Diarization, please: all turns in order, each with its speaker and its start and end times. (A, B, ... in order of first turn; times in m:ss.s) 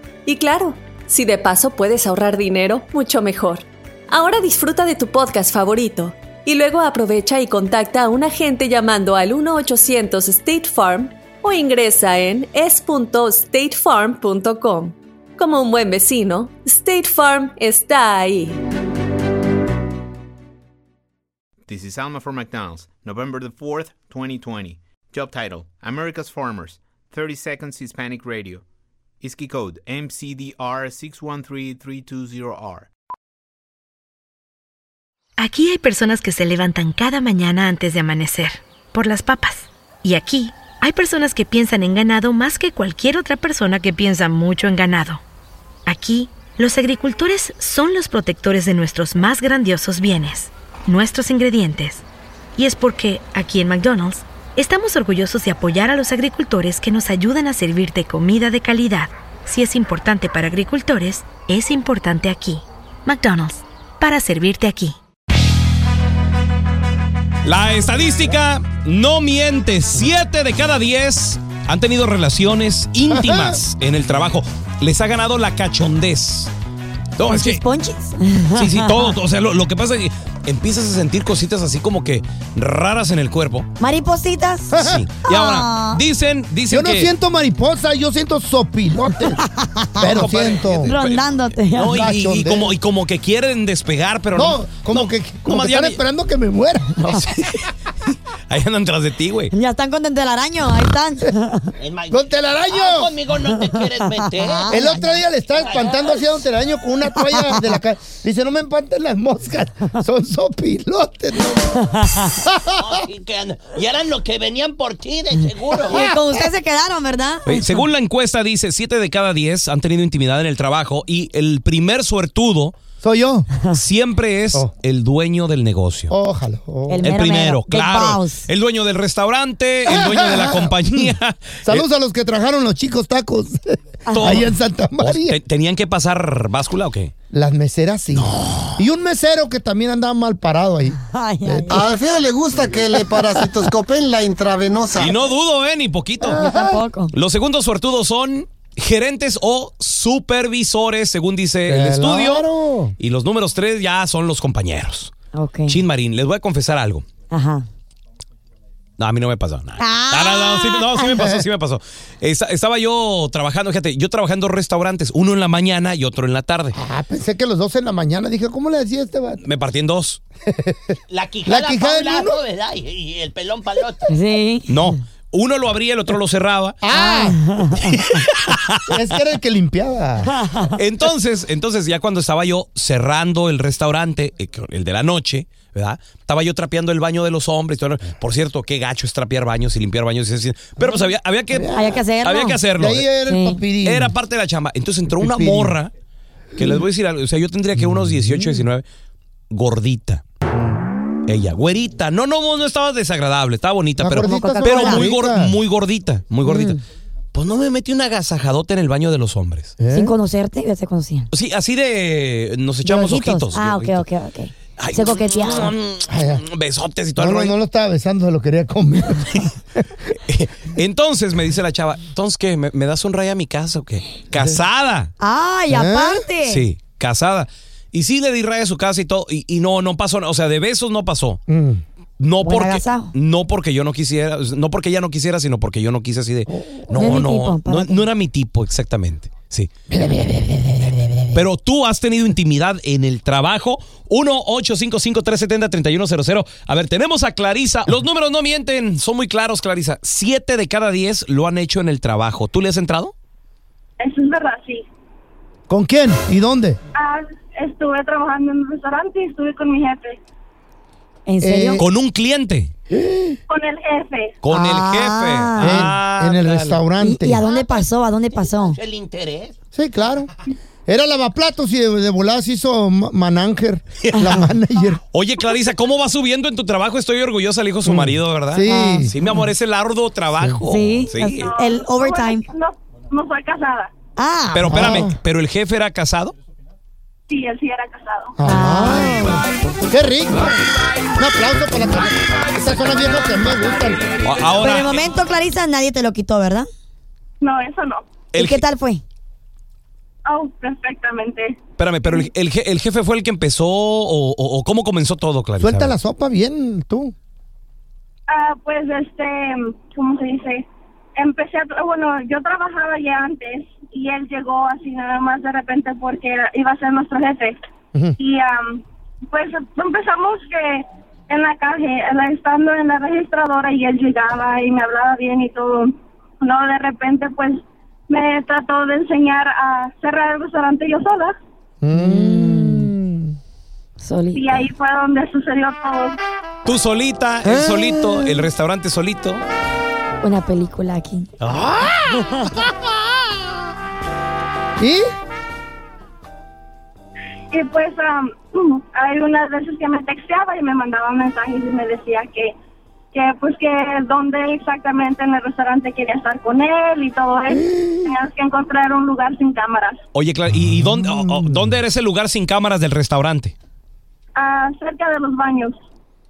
0:00.2-0:18.6 A
0:21.7-0:28.6 B
0:29.2-0:32.9 B
0:35.4-0:45.2 C
0:45.8-0:52.0 C
0:52.6-1:05.0 C
1:07.4-1:16.5 D
1:13.1-1:13.6 E
1:17.2-1:17.6 D
1:17.2-1:19.1 F
1:18.5-1:23.7 D
1:23.8-1:26.0 F
1:24.7-1:25.1 E
1:24.7-1:27.1 D
1:26.7-1:29.4 E
1:29.4-1:30.2 F
1:30.0-1:31.0 E
1:30.0-1:36.0 D
1:30.8-1:32.1 F
1:31.9-1:32.8 E
1:34.3-1:37.2 E
1:37.0-1:39.5 D
1:39.5-1:41.7 F
1:41.8-1:44.7 G
1:42.1-1:43.1 E
1:44.4-1:45.2 F
1:44.7-1:53.0 E
1:45.5-1:46.0 G
1:52.7-1:56.1 G
1:55.8-1:56.2 E
1:55.9-1:57.8 F
1:57.4-2:02.8 D
2:03.0-2:03.5 E
2:03.7-2:06.1 D
2:06.1-2:07.0 E
2:06.9-2:08.4 F
2:07.0-2:11.8 D
2:09.8-2:15.4 E
2:14.0-2:14.4 F
2:14.1-2:17.1 D
2:17.3-2:21.9 E
2:18.1-2:18.8 D
2:21.1-2:22.0 F
2:21.7-2:25.2 H
2:25.0-2:26.4 D
2:26.2-2:26.8 E
2:26.4-2:27.1 F
2:27.1-2:35.1 D
2:31.7-2:32.9 E
2:35.3-2:35.8 F
2:35.7-2:37.1 D
2:37.3-2:37.6 F
2:39.0-2:46.8 D
2:39.8-2:41.1 F
2:41.2-2:41.5 E
2:46.7-2:49.4 E
2:49.4-2:50.2 D
2:50.5-2:50.9 E
2:51.1-2:54.1 G
2:51.4-2:52.4 E
2:54.1-2:54.8 F
2:54.7-2:56.8 D
2:56.8-2:57.4 E
2:56.9-2:57.9 F
2:58.0-2:58.8 D
2:58.8-3:00.3 E
3:00.3-3:00.7 F
3:00.7-3:13.1 D
3:10.8-3:12.0 E
3:11.7-3:12.6 F
3:12.8-3:14.1 E
3:13.2-3:13.6 F
3:13.8-3:15.9 D
3:15.1-3:15.8 E
3:16.6-3:18.8 D
3:18.2-3:18.6 E
3:19.5-3:20.2 D
3:21.2-3:26.8 D
3:24.0-3:25.6 E
3:24.2-3:25.1 F
3:26.4-3:26.8 F
3:27.3-3:29.8 D
3:29.8-3:30.1 E
3:29.9-3:31.3 F
3:31.3-3:34.0 D
3:32.8-3:33.2 E
3:32.9-3:35.7 F
3:34.8-3:37.5 D
3:36.1-3:36.4 E
3:37.2-3:39.5 E
3:40.2-3:45.1 D
3:44.3-3:44.6 E
3:45.2-3:46.6 F
3:45.7-3:46.2 E
3:46.4-3:51.4 D
3:51.5-3:51.8 E
3:52.2-3:59.7 D
3:52.4-3:53.1 F
3:56.5-3:57.1 E
3:56.9-3:58.1 F
3:59.9-4:01.4 E
4:01.3-4:13.1 D
4:14.0-4:14.8 I
4:15.7-4:16.8 E
4:16.9-4:20.2 I
4:21.2-4:21.8 F
4:21.4-4:21.8 E
4:21.8-4:22.7 D
4:22.9-4:23.4 E
4:23.5-4:24.4 I
4:24.4-4:26.8 D
4:24.5-4:25.9 F
4:25.6-4:27.4 E
4:27.0-4:28.8 F
4:28.3-4:29.5 G
4:28.8-4:29.5 D
4:29.7-4:30.3 E
4:30.9-4:35.0 E
4:34.1-4:34.5 F
4:35.1-4:41.5 D
4:37.8-4:39.2 E
4:38.7-4:39.1 F
4:40.7-4:42.5 F
4:41.2-4:43.9 I
4:44.2-4:45.0 F
4:44.5-4:46.3 D
4:44.7-4:45.2 E
4:47.3-4:48.3 I
4:48.4-4:50.6 E
4:48.4-4:49.4 F
4:51.2-4:54.1 E
4:54.2-4:55.0 D
4:54.6-4:56.7 F
4:57.4-4:58.0 I
4:58.3-4:58.6 D
4:58.4-4:59.0 F
5:00.2-5:01.6 I
5:01.8-5:05.9 D
5:05.6-5:07.1 E
5:08.3-5:17.6 I
5:18.2-5:25.9 I
5:26.4-5:31.3 I
5:31.8-5:33.3 E
5:31.9-5:32.9 F
5:34.0-5:34.6 F
5:34.3-5:36.2 I
5:36.6-5:39.4 D
5:37.4-5:38.5 E
5:40.2-5:41.3 F
5:41.4-5:42.3 D
5:44.8-5:45.1 E
5:47.5-5:52.5 I
5:53.1-6:00.0 I
6:00.1-6:03.5 D
6:00.6-6:01.7 E
6:04.3-6:05.8 I